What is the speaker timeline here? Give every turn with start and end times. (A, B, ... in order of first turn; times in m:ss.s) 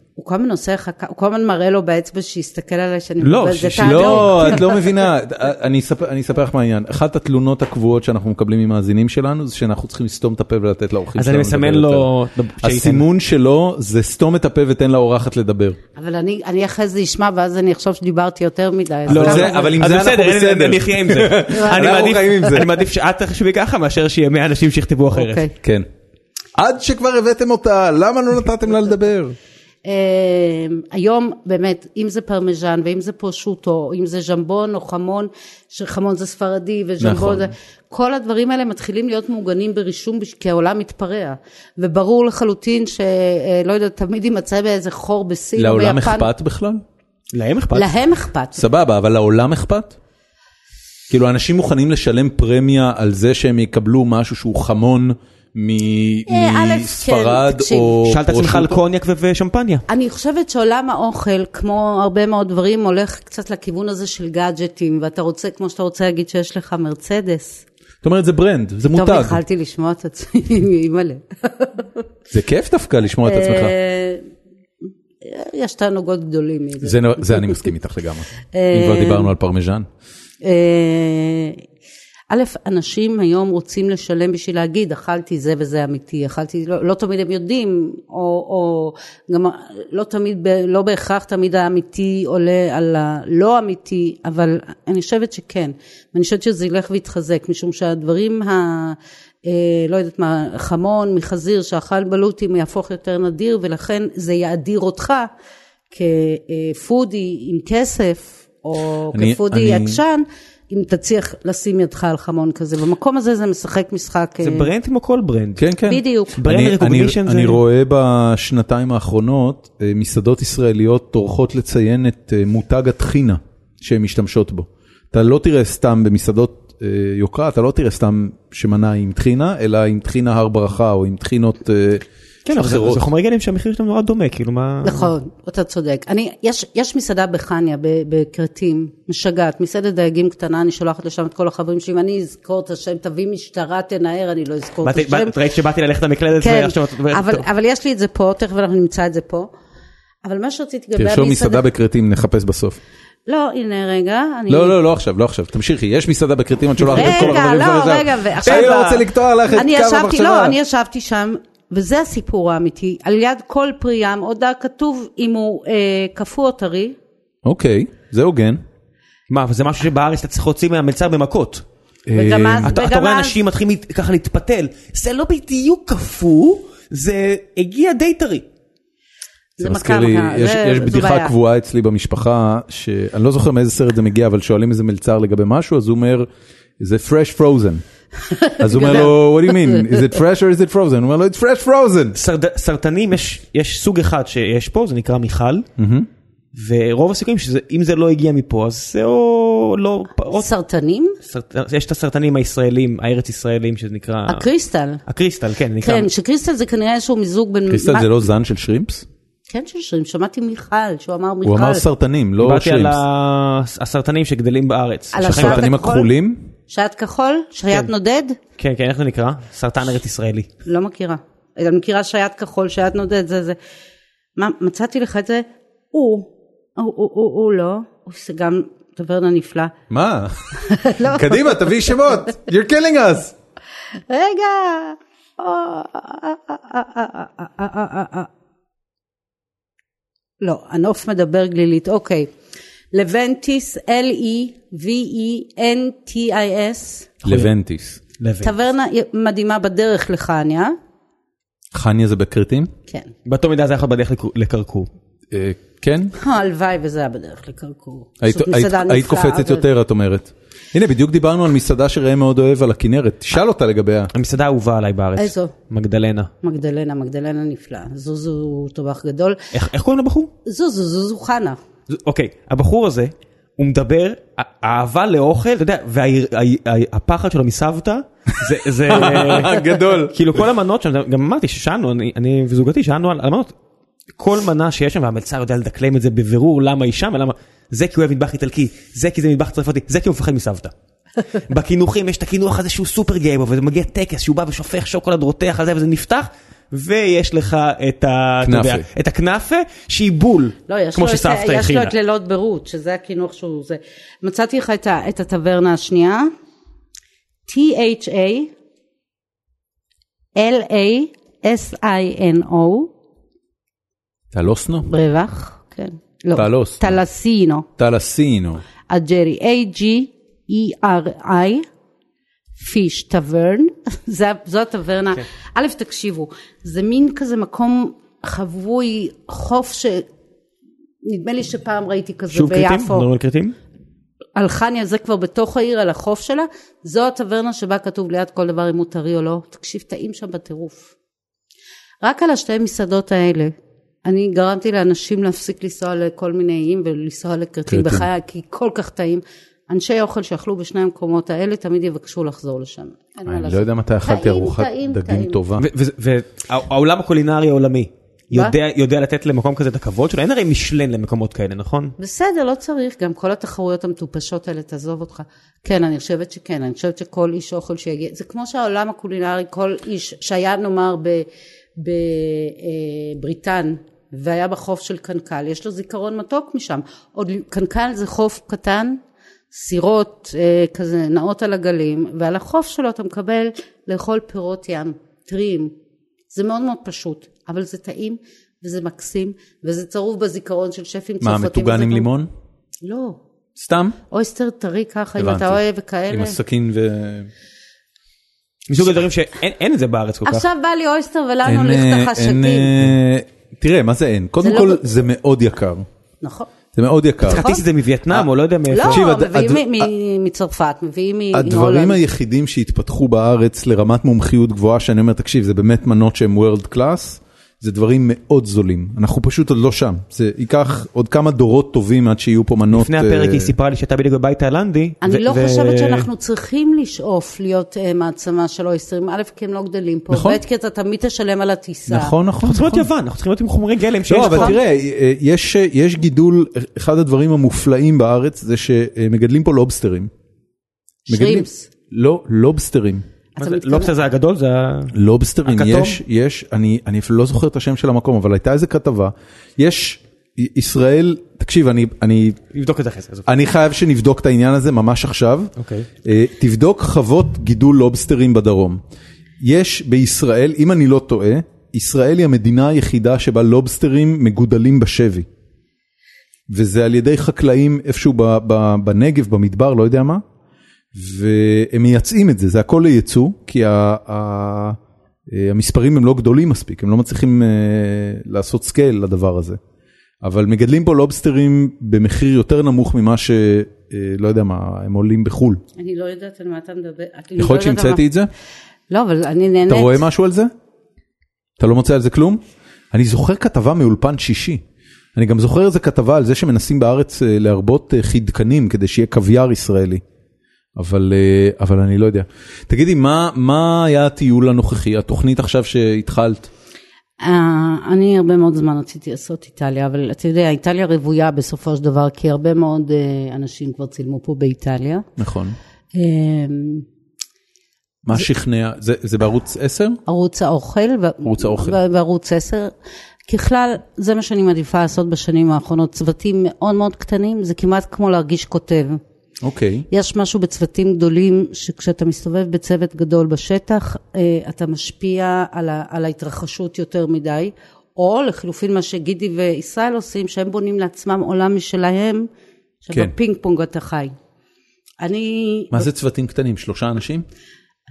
0:00.2-0:04.8 A
0:03.2-0:04.7 B
0:03.8-0:15.8 C
0:11.1-0:13.1 B
0:16.0-0:19.7 A
0:19.1-0:22.8 C
0:19.1-0:25.4 B
0:21.5-0:22.1 A
0:25.1-0:25.5 A
0:25.6-0:25.9 C
0:26.5-0:29.3 C
0:29.8-0:46.3 A
0:37.0-0:37.5 C
0:45.6-0:46.8 C
0:47.3-0:47.9 B
0:47.7-0:48.6 A
0:48.6-0:50.0 C
0:51.1-0:58.8 C
0:56.3-0:58.0 A
0:58.0-0:59.8 B
0:59.9-1:07.6 A
1:08.0-1:09.4 C
1:08.9-1:12.0 A
1:12.3-1:13.7 C
1:13.2-1:14.2 A
1:15.2-1:17.7 A
1:16.8-1:19.9 C
1:18.5-1:19.3 A
1:20.4-1:21.6 A
1:22.3-1:45.3 A
1:45.9-1:54.7 A
1:49.1-1:50.0 C
1:54.4-1:55.6 B
1:55.6-2:13.1 C
1:55.9-1:56.4 A
1:56.3-1:57.6 B
2:12.4-2:15.1 B
2:14.8-2:25.4 A
2:24.8-2:27.4 B
2:26.4-2:29.5 A
2:30.2-2:31.6 A
2:31.0-2:32.8 C
2:33.3-2:34.8 A
2:34.5-2:40.6 C
2:36.8-2:37.5 B
2:36.9-2:47.0 A
2:38.4-2:39.0 B
2:47.4-2:48.6 C
2:49.3-2:51.6 B
2:52.1-2:52.7 C
2:52.1-2:53.4 A
2:52.6-2:58.5 B
2:59.6-3:01.3 A
2:59.6-3:07.8 C
3:08.4-3:10.0 A
3:08.6-3:12.2 C
3:12.1-3:15.7 B
3:15.8-3:16.1 C
3:16.5-3:20.5 B
3:20.3-3:21.2 A
3:21.2-3:24.4 B
3:24.3-3:25.0 A
3:25.1-3:26.1 B
3:25.8-3:28.1 A
3:27.7-3:29.0 C
3:29.5-3:31.8 A
3:31.4-3:33.0 C
3:32.4-3:35.6 B
3:35.1-3:36.1 A
3:35.2-3:36.5 C
3:36.7-3:38.4 A
3:38.6-3:40.5 B
3:40.6-3:43.6 A
3:44.4-3:49.7 A
3:49.9-3:53.3 C
3:50.5-3:51.9 A
3:54.1-3:58.3 A
4:00.4-4:02.3 A
4:02.9-4:07.2 A
4:07.2-4:08.0 C
4:08.2-4:08.6 B
4:08.4-4:10.8 A
4:11.7-4:12.7 C
4:13.2-4:14.9 B
4:15.3-4:16.1 C
4:16.2-4:19.6 A
4:18.2-4:24.1 C
4:24.1-4:26.3 B
4:25.2-4:25.5 A
4:26.4-4:29.4 A
4:29.5-4:30.3 B
4:30.4-4:31.6 A
4:31.9-4:43.5 B
4:38.8-4:40.2 C
4:44.2-4:50.7 B
4:51.4-5:01.9 B
4:58.4-4:58.9 C
5:00.7-5:06.3 A
5:07.5-5:08.5 A
5:10.3-5:12.9 A
5:14.3-5:14.9 C
5:14.9-5:17.7 A
5:16.3-5:17.0 C
5:17.8-5:18.6 C
5:18.9-5:21.6 A
5:22.6-5:30.0 A
5:31.0-5:33.1 A
5:32.3-5:33.5 B
5:34.4-5:40.9 A
5:42.0-5:55.4 A
5:47.7-5:48.0 C
5:53.3-5:55.6 C
5:55.6-6:02.0 B
6:02.0-6:19.0 A
6:19.5-6:25.7 A
6:26.3-6:32.1 A
6:31.2-6:32.3 C
6:32.8-6:33.2 A
6:33.6-6:34.0 C
6:34.1-6:36.4 A
6:35.2-6:37.3 C
6:38.7-6:40.5 B
6:40.2-6:42.7 A
6:41.4-6:45.8 C
6:44.4-6:44.9 A
6:46.2-6:46.5 A
6:46.7-6:47.4 C
6:47.2-6:49.0 B
6:47.2-6:47.6 A
6:48.7-6:52.0 A
6:48.8-6:49.9 C
6:51.3-7:03.5 C
7:02.7-7:06.1 B
7:05.0-7:12.1 A
7:10.1-7:10.4 C
7:11.9-7:12.9 C
7:12.4-7:14.6 B
7:14.1-7:20.1 C
7:21.1-7:21.7 A
7:21.1-7:23.0 C
7:23.4-7:24.9 B
7:23.4-7:23.9 A
7:24.9-7:32.4 C
7:25.4-7:26.0 B
7:32.5-7:33.3 B
7:33.2-7:35.5 C
7:35.6-7:35.9 B
7:36.0-7:38.8 C
7:39.4-7:45.2 C
7:46.5-7:50.2 C
7:50.9-7:54.8 C
7:55.3-7:59.6 C
8:00.2-8:05.6 C
8:05.8-8:08.0 A
8:07.4-8:08.3 C
8:08.9-8:10.0 A
8:09.7-8:10.5 C
8:11.6-8:12.4 C
8:12.9-8:14.6 C
8:15.2-8:20.0 C
8:20.8-8:26.5 C
8:27.2-8:35.1 A
8:35.2-8:35.6 C
8:35.9-8:36.8 A
8:38.0-8:40.0 C
8:40.0-8:42.7 A
8:41.2-8:41.8 C
8:43.3-8:49.0 A
8:49.4-8:49.9 C
8:49.9-9:02.3 A
9:02.8-9:04.1 A
9:05.0-9:05.8 A
9:05.7-9:07.2 C